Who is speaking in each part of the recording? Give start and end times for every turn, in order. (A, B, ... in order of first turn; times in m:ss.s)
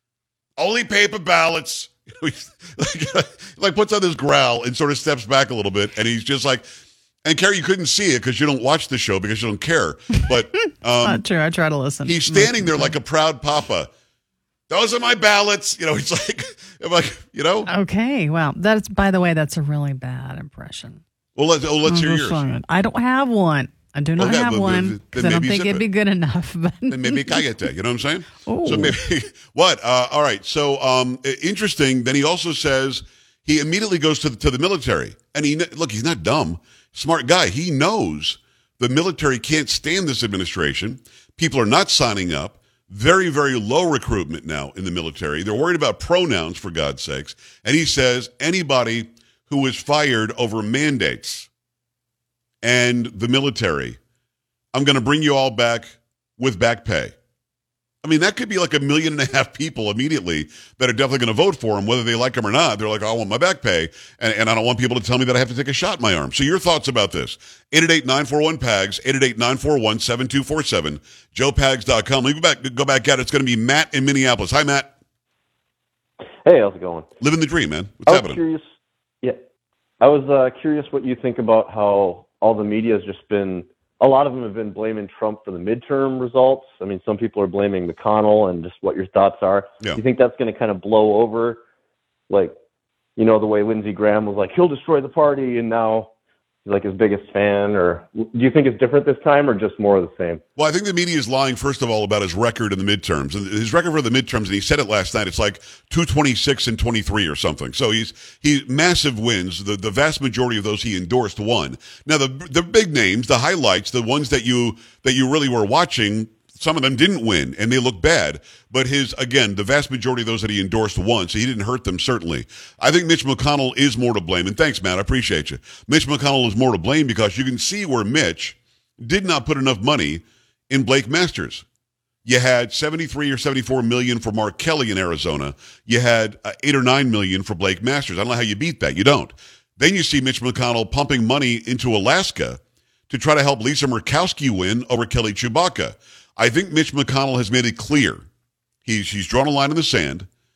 0:00.6-0:06.6 A
0:07.2-0:11.2 A
0:11.0-0:12.9 B
0:12.0-0:13.9 A
0:14.7-0:17.7 A
0:17.7-0:21.0 B
0:21.4-0:22.4 A
0:21.8-0:27.4 B
0:24.2-0:25.8 A
0:26.9-0:51.5 A
0:28.4-0:29.0 B
0:52.6-0:54.0 A
0:54.7-0:57.1 A
0:58.0-1:14.9 A
1:16.4-1:17.1 C
1:17.2-1:18.4 A
1:18.1-1:18.6 C
1:19.2-1:19.5 C
1:20.0-1:31.6 C
1:32.3-1:32.5 C
1:33.2-1:36.1 C
1:36.6-1:40.4 C
1:40.6-2:11.6 A
2:12.2-2:28.2 A
2:28.8-2:30.3 A